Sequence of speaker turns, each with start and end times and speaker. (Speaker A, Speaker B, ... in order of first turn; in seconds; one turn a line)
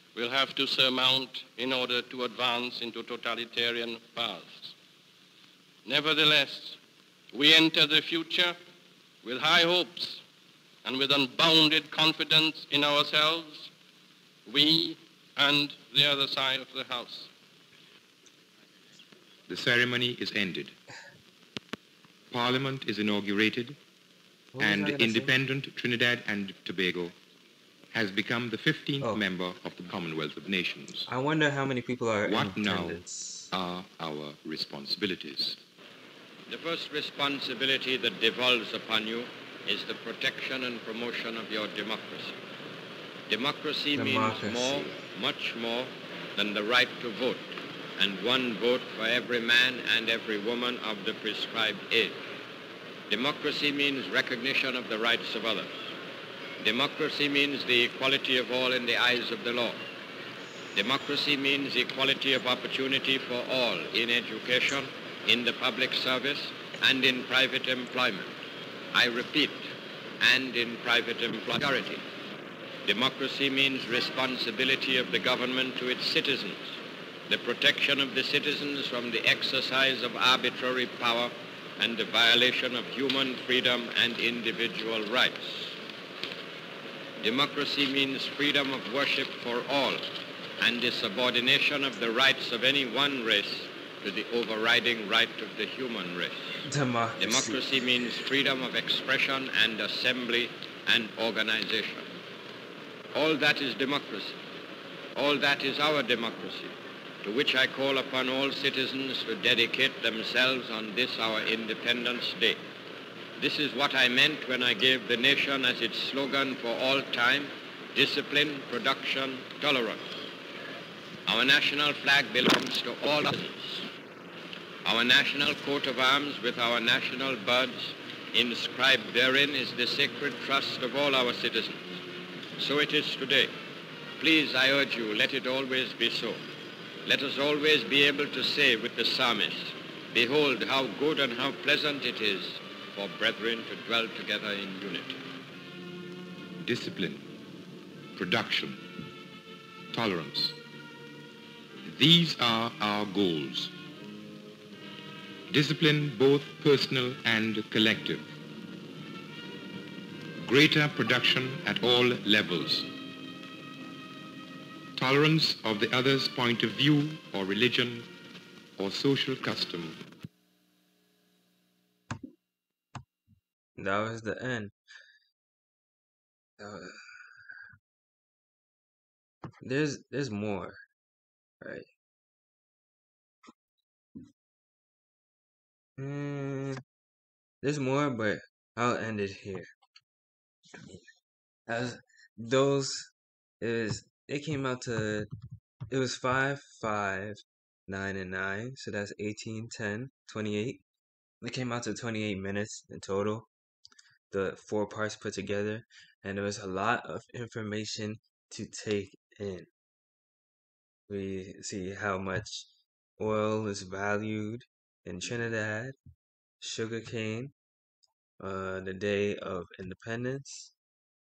Speaker A: 0.1-4.7
Speaker A: 5.8-6.8
Speaker A: 7.3-8.6
Speaker A: 9.2-10.2
Speaker A: 10.8-13.7
Speaker A: 14.5-17.3
Speaker B: 19.5-20.8
Speaker B: 22.3-23.8
Speaker C: 24.5-25.3
Speaker B: 24.6-27.2
Speaker B: 27.9-31.1
Speaker C: 31.1-33.5
Speaker B: 32.2-35.6
Speaker D: 36.5-42.4
Speaker D: 43.3-52.2
Speaker C: 44.0-45.0
Speaker D: 53.1-55.9
Speaker D: 56.6-59.8
Speaker D: 60.8-68.4
Speaker D: 68.9-72.0
Speaker D: 72.8-85.8
Speaker D: 87.2-90.1
Speaker D: 90.6-96.7
Speaker C: 96.7-97.6
Speaker D: 97.2-102.1
Speaker D: 103.1-104.4
Speaker D: 105.2-112.6
Speaker D: 113.4-120.1
Speaker D: 121.3-123.9
Speaker D: 124.8-132.0
Speaker D: 132.6-133.5
Speaker D: 134.2-136.4
Speaker D: 137.1-145.2
Speaker B: 146.6-147.2
Speaker B: 148.2-148.8
Speaker B: 149.9-150.6
Speaker B: 151.8-153.7
Speaker B: 155.5-158.2
Speaker B: 160.4-162.9
Speaker B: 165.0-168.1
Speaker B: 168.8-170.0
Speaker C: 173.8-174.7
Speaker C: 176.6-177.4
Speaker C: 179.6-180.8
Speaker C: 181.6-181.9
Speaker C: 186.0-186.8
Speaker C: 187.6-189.7
Speaker C: 191.7-195.3
Speaker C: 195.9-200.8
Speaker C: 201.4-203.5
Speaker C: 204.3-209.7
Speaker C: 211.1-212.7
Speaker C: 213.2-216.0
Speaker C: 216.6-217.5
Speaker C: 218.4-220.7